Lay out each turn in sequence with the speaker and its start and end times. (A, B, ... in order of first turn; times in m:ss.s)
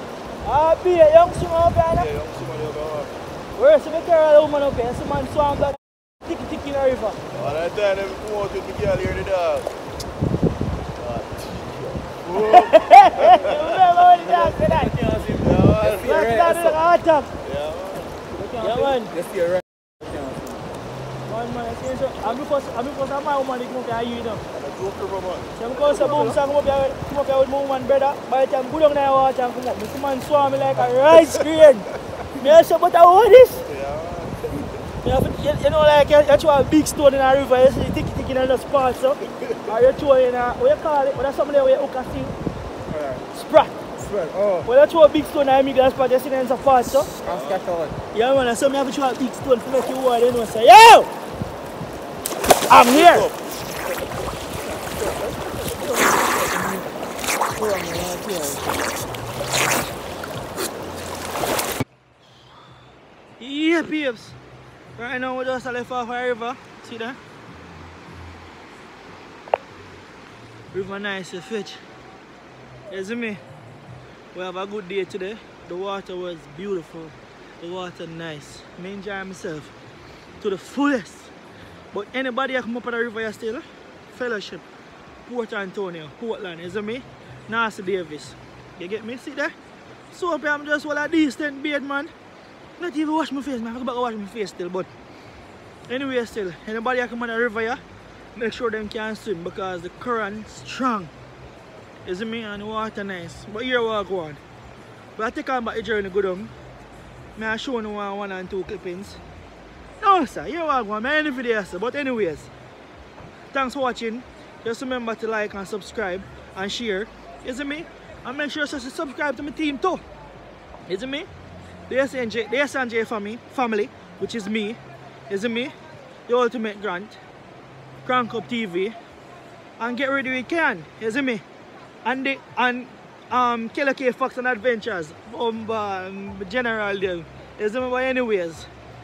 0:00.4-0:02.1 A
0:01.9-0:03.2 B
0:03.6-0:07.2 A
0:07.3-0:09.7 B
0:11.0-0:13.8 B
0:12.4-0:15.0 A
0:14.7-0:16.8 C
0:15.3-0:16.2 B
0:16.0-0:17.3 A
0:17.4-0:18.2 B
0:18.3-0:20.6 C
0:18.6-0:19.1 A
0:21.2-0:24.4 A
0:24.5-0:25.7 B
0:25.6-0:33.6 A
0:33.6-0:34.6 B
0:35.0-0:42.4 A
0:42.9-0:43.2 C
0:43.4-0:43.8 A
0:44.0-0:44.7 C
0:44.6-0:47.1 A
0:47.2-0:47.6 B
0:47.2-0:48.0 C
0:48.1-0:51.1 A
0:52.7-0:53.3 A
0:52.9-0:53.3 B
0:54.8-0:56.9 C
0:57.6-0:58.8 C
1:03.4-1:04.4 A
1:05.0-1:07.2 A
1:10.7-1:11.8 A
1:12.9-1:13.4 A
1:14.3-1:19.7 A
1:20.4-1:21.3 A
1:21.9-1:24.7 A
1:25.3-1:29.5 A
1:30.1-1:32.1 A
1:32.8-1:34.9 A
1:35.9-1:37.8 A
1:38.4-1:41.1 A
1:42.0-1:44.4 A
1:45.2-1:46.5 A
1:47.4-1:49.2 A
1:50.0-1:52.5 A
1:53.5-2:00.0 A
2:00.9-2:01.3 A
2:01.9-2:04.8 A
2:05.3-2:05.7 A
2:06.3-2:07.2 A
2:08.0-2:09.0 A
2:09.8-2:11.4 A
2:12.0-2:18.7 A